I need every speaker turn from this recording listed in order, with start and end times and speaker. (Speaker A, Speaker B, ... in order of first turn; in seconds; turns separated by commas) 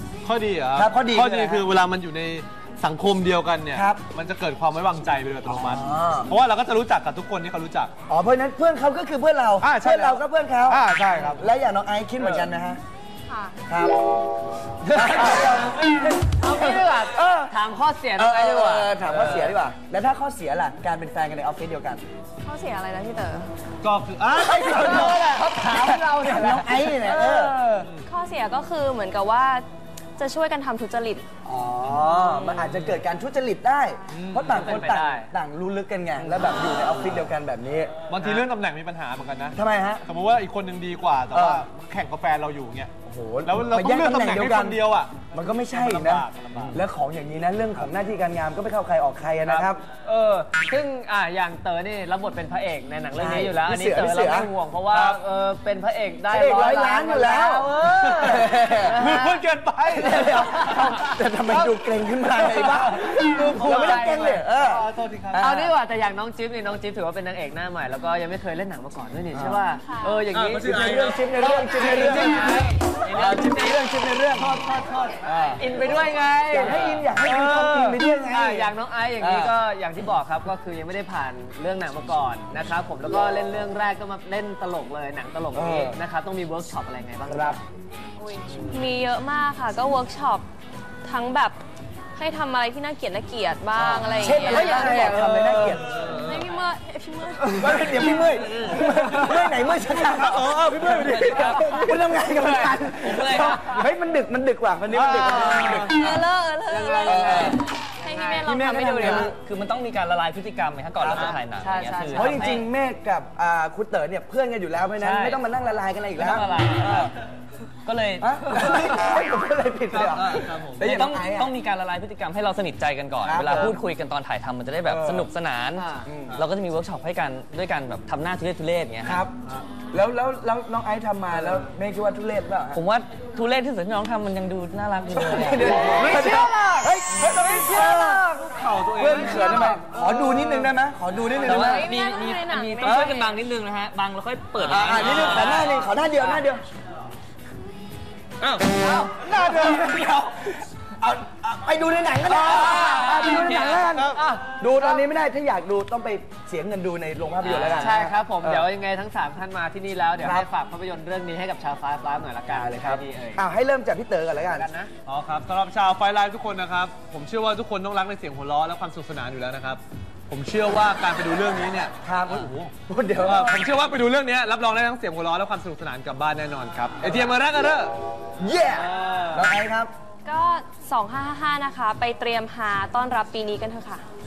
Speaker A: 0.2-7.9, Speaker B: 0.7-1.7, Speaker B: 3.7-4.0, Speaker B: 5.5-6.3, Speaker B: 8.1-12.8, Speaker A: 9.6-11.5, Speaker A: 12.2-12.5, Speaker C: 13.3-13.6, Speaker B: 13.7-14.0, Speaker B: 14.9-15.9, Speaker A: 15.0-15.6, Speaker D: 16.3-19.6, Speaker B: 17.1-17.5, Speaker B: 18.2-22.0, Speaker C: 22.4-23.5, Speaker A: 23.8-25.4, Speaker B: 24.4-27.6, Speaker D: 25.1-27.9, Speaker C: 28.1-29.6, Speaker C: 30.2-31.2, Speaker B: 31.4-38.0, Speaker A: 32.7-33.0, Speaker A: 34.1-34.8, Speaker D: 34.6-35.3, Speaker A: 38.1-42.9, Speaker B: 39.5-40.0, Speaker B: 41.3-41.7, Speaker B: 43.0-49.8, Speaker A: 43.5-46.8, Speaker A: 49.4-49.7, Speaker D: 49.9-59.4, Speaker B: 53.2-54.5, Speaker A: 54.9-55.2, Speaker B: 56.3-59.0, Speaker A: 58.8-65.7, Speaker B: 59.9-65.7, Speaker D: 63.5-64.4, Speaker D: 65.4-70.8, Speaker B: 69.3-69.6, Speaker C: 69.8-70.2, Speaker A: 70.3-72.7, Speaker B: 70.6-74.6, Speaker D: 71.4-73.8, Speaker A: 74.3-75.2, Speaker B: 75.2-79.5, Speaker D: 75.6-76.8, Speaker A: 76.7-78.0, Speaker D: 78.3-87.6, Speaker B: 85.5-86.0, Speaker B: 87.3-87.6, Speaker C: 88.2-90.5, Speaker C: 91.0-91.6, Speaker C: 92.2-95.2, Speaker B: 93.8-95.8, Speaker D: 94.6-95.2, Speaker A: 95.3-96.2, Speaker C: 96.2-98.1, Speaker B: 97.4-106.3, Speaker A: 98.4-98.8, Speaker A: 100.1-101.6, Speaker E: 100.7-101.9, Speaker E: 102.9-103.6, Speaker A: 104.9-106.0, Speaker C: 106.0-107.2, Speaker A: 106.7-107.3, Speaker D: 106.8-108.5, Speaker B: 107.0-107.6, Speaker C: 108.0-109.3, Speaker B: 108.4-109.3, Speaker E: 108.8-112.5, Speaker B: 111.0-111.4, Speaker D: 111.5-112.7, Speaker B: 112.1-117.1, Speaker E: 115.0-115.4, Speaker E: 116.2-117.1, Speaker E: 117.9-118.3, Speaker B: 118.2-121.5, Speaker A: 119.9-121.0, Speaker E: 120.8-129.2, Speaker B: 123.2-123.8, Speaker B: 124.8-125.3, Speaker D: 125.8-126.1, Speaker B: 126.1-126.4, Speaker B: 129.0-129.3, Speaker B: 129.9-132.8, Speaker E: 132.7-135.8, Speaker B: 135.1-138.3, Speaker A: 135.8-140.7, Speaker B: 139.0-141.9, Speaker E: 141.4-145.8, Speaker C: 141.6-143.3, Speaker B: 144.6-146.6, Speaker A: 144.9-145.7, Speaker A: 148.4-150.2, Speaker D: 148.8-149.1, Speaker B: 149.2-158.7, Speaker A: 152.3-154.2, Speaker D: 154.2-155.0, Speaker D: 157.4-163.4, Speaker B: 160.2-160.5, Speaker B: 162.5-164.7, Speaker D: 164.5-164.9, Speaker A: 165.1-177.9, Speaker B: 172.0-173.7, Speaker B: 178.4-179.9, Speaker A: 178.8-179.4, Speaker C: 180.3-184.0